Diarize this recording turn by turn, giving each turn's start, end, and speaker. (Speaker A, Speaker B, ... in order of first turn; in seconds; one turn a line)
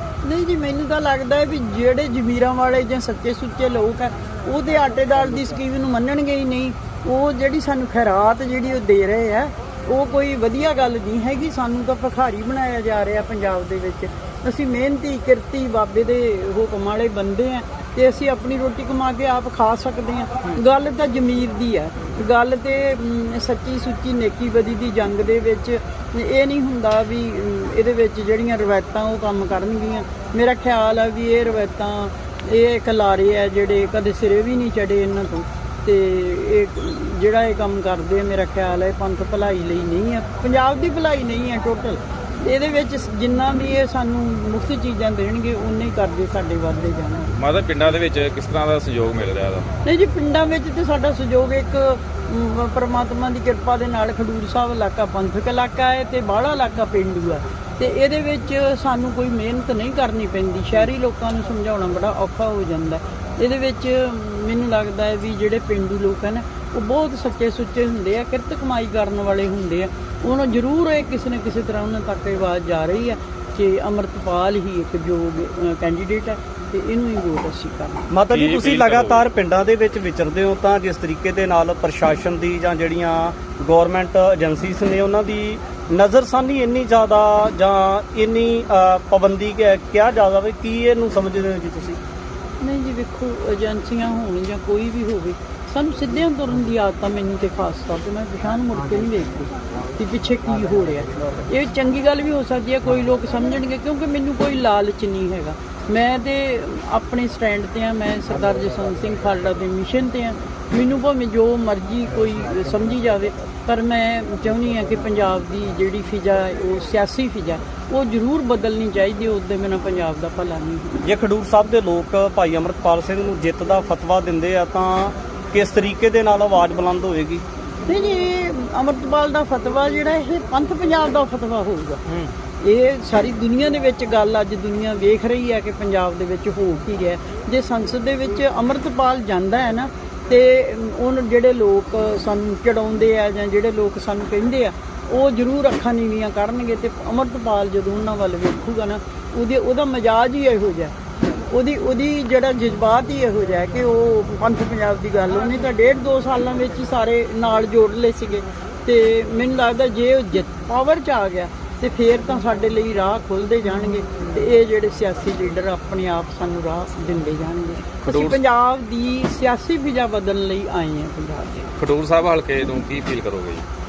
Speaker A: 0.2-47.3
Speaker B: 47.3-49.7
Speaker A: 49.8-78.1
Speaker C: 78.1-92.0
Speaker B: 78.3-79.2
Speaker A: 92.6-121.0
Speaker C: 121.0-127.4
Speaker A: 127.9-132.0
Speaker A: 132.6-171.7
Speaker B: 168.1-168.4
Speaker B: 171.8-173.7